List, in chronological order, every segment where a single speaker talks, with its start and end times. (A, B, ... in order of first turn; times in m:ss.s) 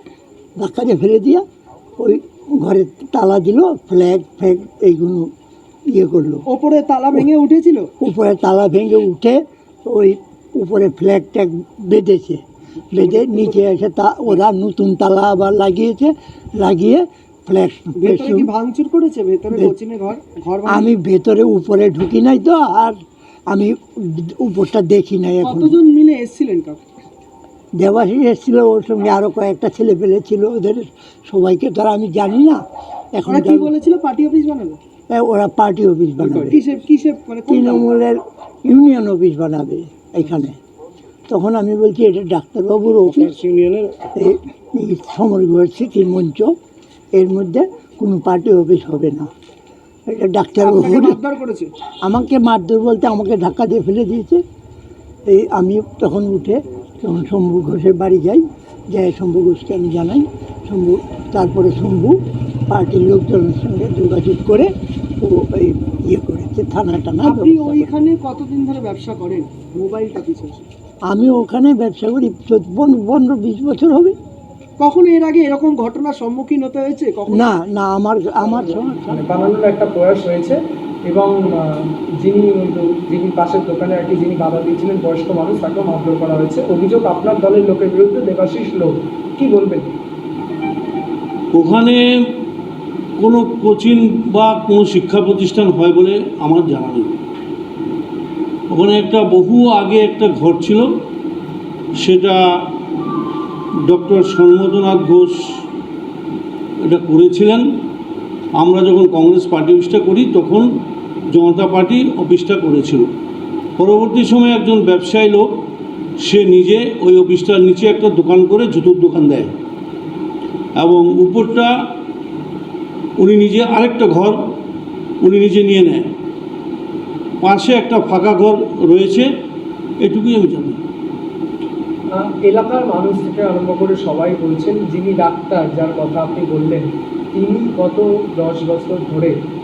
0:00.6-0:01.4 A
0:02.0-0:05.3 A
0:06.0-0:06.5 A
0:06.5-0:07.9 B
0:08.0-0:12.4 A
0:12.9-0:18.5 A
0:13.0-0:13.6 B
0:18.0-0:20.9 B
0:20.7-0:23.0 A
0:23.5-0:25.8 A
0:25.4-0:26.8 B
0:27.8-0:32.6 A
0:33.1-0:33.8 A
0:33.3-0:34.8 B
0:35.1-0:36.6 A
0:36.3-0:37.9 B
0:37.4-0:40.6 A
0:41.3-0:43.5 A
0:44.2-0:46.5 A
0:47.2-0:49.3 A
0:50.1-0:51.2 A
0:50.6-0:51.7 B
0:52.0-0:54.4 A
0:55.3-1:02.2 A
1:02.7-1:04.7 A
1:05.2-1:07.9 A
1:07.2-1:10.6 B
1:11.1-1:14.2 A
1:14.8-1:17.5 B
1:17.3-1:19.2 A
1:18.5-1:29.9 C
1:31.5-1:32.0 D
1:33.2-1:37.2 D
1:38.7-1:40.9 D
1:42.0-1:42.4 D
1:43.9-1:45.4 D
1:46.9-1:47.6 D
1:48.6-1:50.7 D
1:51.3-1:53.1 D
1:53.8-1:55.5 D
1:56.2-1:59.5 D
2:00.8-2:01.7 D
2:03.2-2:04.4 D
2:05.2-2:06.1 D
2:07.4-2:09.3 D
2:10.0-2:10.8 D
2:12.1-2:19.4 C